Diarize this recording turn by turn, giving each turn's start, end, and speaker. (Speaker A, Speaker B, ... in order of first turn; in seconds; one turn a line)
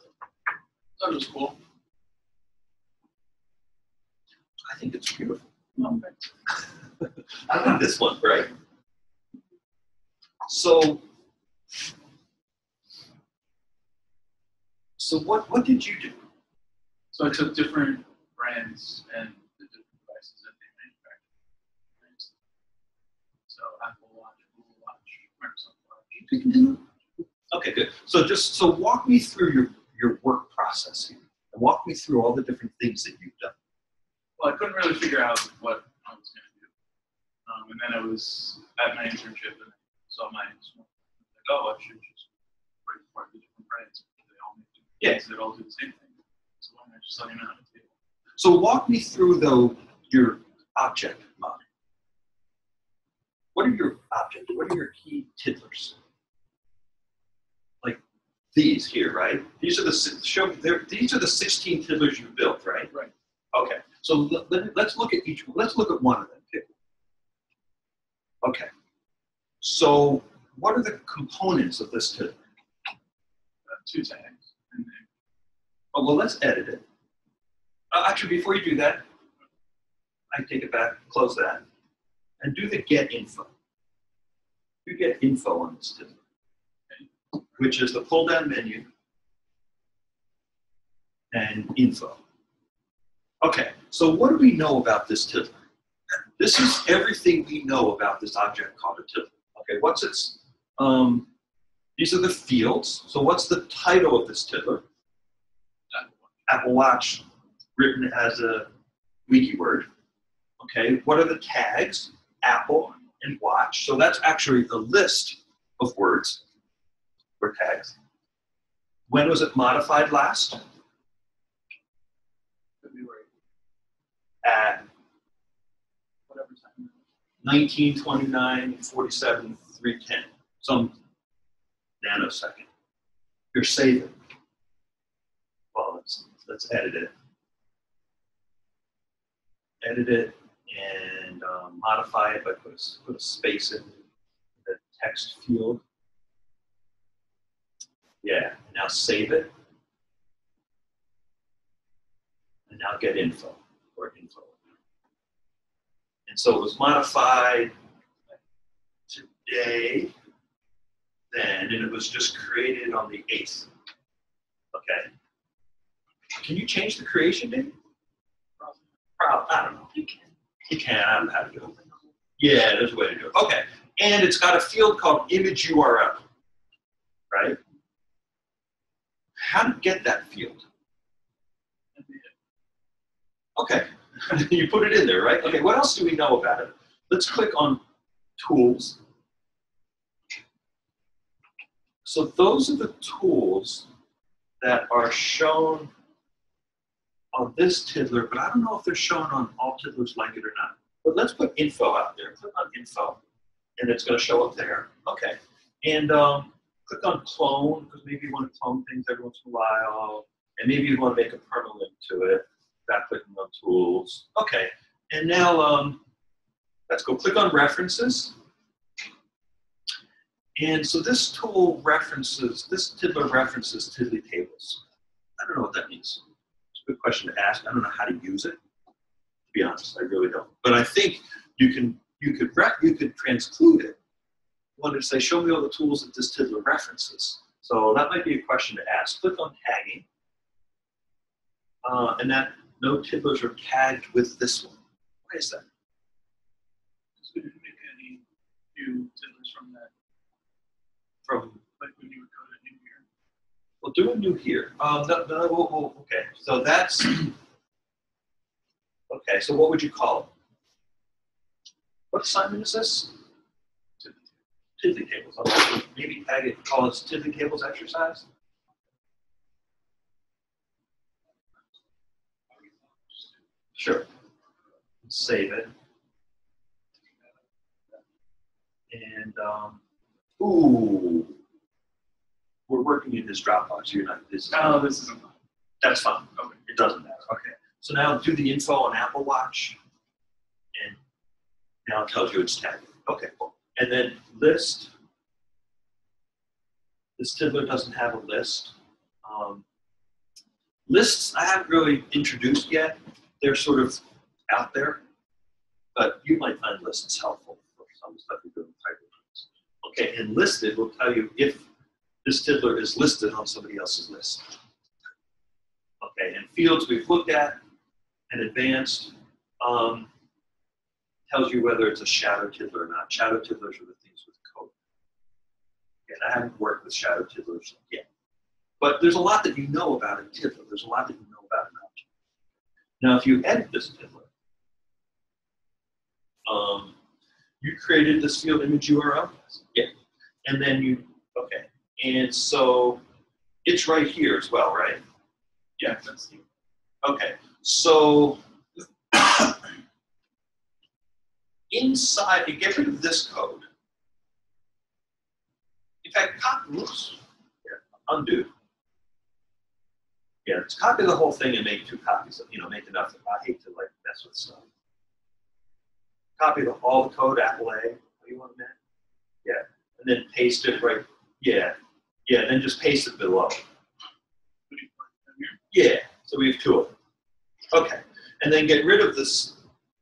Speaker A: 1.0-1.6
Speaker B: 4.7-5.5
Speaker A: 5.8-6.1
Speaker B: 7.5-8.5
Speaker B: 10.5-11.0
Speaker B: 15.0-16.2
Speaker A: 17.1-21.2
Speaker A: 22.0-22.3
Speaker A: 23.5-26.3
Speaker B: 26.1-26.8
Speaker B: 27.5-33.5
Speaker A: 34.4-36.7
Speaker A: 37.5-42.3
Speaker A: 42.9-47.9
Speaker B: 48.4-51.6
Speaker B: 53.5-56.0
Speaker B: 58.5-62.9
Speaker B: 63.5-66.7
Speaker B: 68.4-68.7
Speaker B: 69.6-72.4
Speaker A: 73.7-75.1
Speaker B: 75.9-76.8
Speaker B: 77.9-79.0
Speaker B: 80.3-81.6
Speaker B: 82.4-83.5
Speaker B: 84.8-86.2
Speaker B: 87.6-88.9
Speaker B: 91.3-92.2
Speaker B: 93.4-95.6
Speaker B: 96.1-101.3
Speaker B: 102.0-104.8
Speaker A: 105.9-106.3
Speaker B: 106.5-107.2
Speaker B: 107.8-108.7
Speaker B: 109.3-109.9
Speaker B: 110.6-116.4
Speaker B: 117.4-118.0
Speaker B: 119.1-120.6
Speaker A: 122.8-123.3
Speaker B: 124.4-124.9
Speaker A: 126.3-127.0
Speaker B: 127.4-130.9
Speaker B: 132.0-132.7
Speaker B: 133.5-134.2
Speaker B: 135.7-137.1
Speaker B: 139.8-144.0
Speaker B: 144.6-145.8
Speaker B: 148.2-149.5
Speaker B: 152.7-154.6
Speaker B: 156.3-157.7
Speaker B: 159.1-160.1
Speaker B: 161.3-163.7
Speaker B: 164.7-165.1
Speaker B: 166.4-167.8
Speaker B: 169.2-170.0
Speaker B: 170.7-171.8
Speaker B: 172.4-176.2
Speaker B: 177.3-177.6
Speaker B: 179.4-180.7
Speaker A: 181.9-182.3
Speaker B: 183.6-187.8
Speaker B: 188.4-189.0
Speaker B: 192.1-193.9
Speaker B: 194.6-195.9
Speaker B: 197.3-203.2
Speaker B: 203.8-216.0
Speaker B: 216.9-218.3
Speaker B: 220.6-224.8
Speaker B: 225.4-226.2
Speaker B: 226.8-228.6
Speaker B: 229.5-234.0
Speaker B: 234.8-240.1
Speaker B: 241.8-245.7
Speaker A: 247.2-248.2
Speaker A: 248.7-249.9
Speaker B: 251.3-251.6
Speaker A: 251.8-253.1
Speaker B: 253.8-257.3
Speaker B: 259.1-260.3
Speaker B: 262.1-263.2
Speaker B: 264.8-268.2
Speaker A: 273.1-273.3
Speaker B: 273.8-274.1
Speaker B: 275.1-275.7
Speaker B: 278.9-279.8
Speaker B: 280.4-281.4
Speaker B: 282.7-284.9
Speaker A: 284.5-285.4
Speaker B: 285.8-289.8
Speaker B: 291.9-294.9
Speaker B: 297.2-299.6
Speaker B: 300.9-305.0
Speaker B: 305.9-311.6
Speaker B: 312.2-314.6
Speaker B: 316.0-317.6
Speaker B: 318.3-320.1
Speaker B: 321.3-324.7
Speaker B: 326.1-328.1
Speaker B: 328.8-332.1
Speaker B: 333.0-334.3
Speaker B: 336.5-336.9
Speaker B: 337.6-339.9
Speaker B: 340.4-343.0
Speaker B: 343.6-345.0
Speaker A: 345.8-346.4
Speaker B: 347.0-348.4
Speaker B: 349.1-349.5
Speaker B: 351.7-353.7
Speaker B: 356.0-358.5
Speaker B: 360.4-364.7
Speaker B: 366.4-368.8
Speaker B: 369.4-373.6
Speaker A: 374.7-375.6
Speaker B: 375.7-376.9
Speaker B: 377.7-379.6